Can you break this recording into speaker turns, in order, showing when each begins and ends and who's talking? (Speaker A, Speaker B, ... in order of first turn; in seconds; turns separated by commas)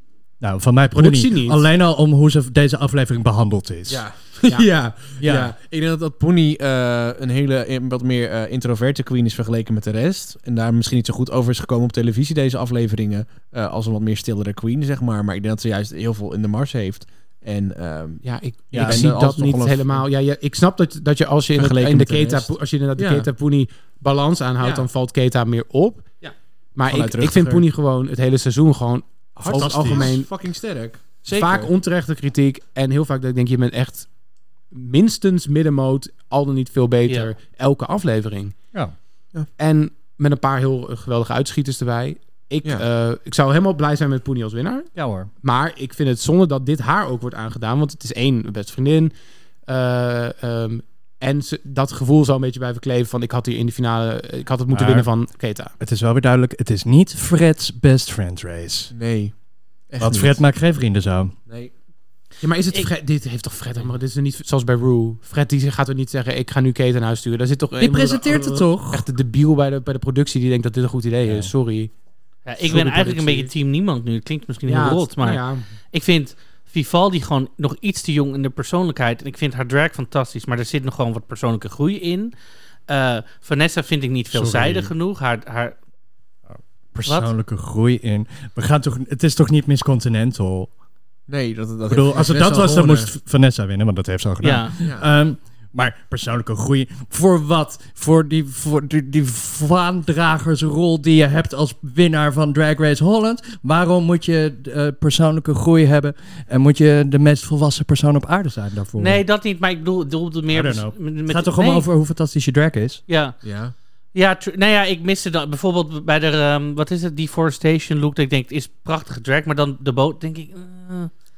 Speaker A: 0.4-4.0, Speaker B: 0.9-1.7, Speaker C: 3.9-20.1, Speaker A: 5.2-5.5, Speaker B: 18.2-26.1, Speaker A: 18.7-19.1, Speaker C: 21.6-23.3, Speaker C: 24.6-24.9, Speaker B: 26.8-30.3, Speaker C: 26.9-27.7, Speaker C: 29.4-31.7, Speaker A: 29.5-30.1, Speaker B: 31.3-34.1, Speaker B: 34.7-38.5, Speaker B: 39.6-44.9, Speaker A: 45.0-45.3, Speaker B: 45.4-49.1, Speaker B: 49.7-55.7, Speaker A: 54.7-55.1, Speaker A: 55.8-58.9, Speaker C: 58.9-59.3, Speaker C: 59.9-60.4, Speaker A: 60.0-61.3, Speaker B: 62.4-71.9, Speaker C: 67.8-68.9, Speaker A: 68.3-69.0, Speaker A: 71.2-71.5, Speaker D: 72.5-82.3, Speaker B: 72.6-73.5, Speaker B: 74.7-75.6, Speaker D: 82.9-85.8, Speaker A: 84.3-84.9, Speaker A: 86.5-90.7, Speaker C: 91.3-93.1, Speaker A: 91.9-109.2, Speaker D: 94.4-94.8, Speaker C: 94.8-95.1, Speaker D: 109.0-111.9, Speaker A: 110.5-113.0, Speaker D: 113.1-113.4, Speaker C: 113.4-113.7, Speaker D: 114.1-121.1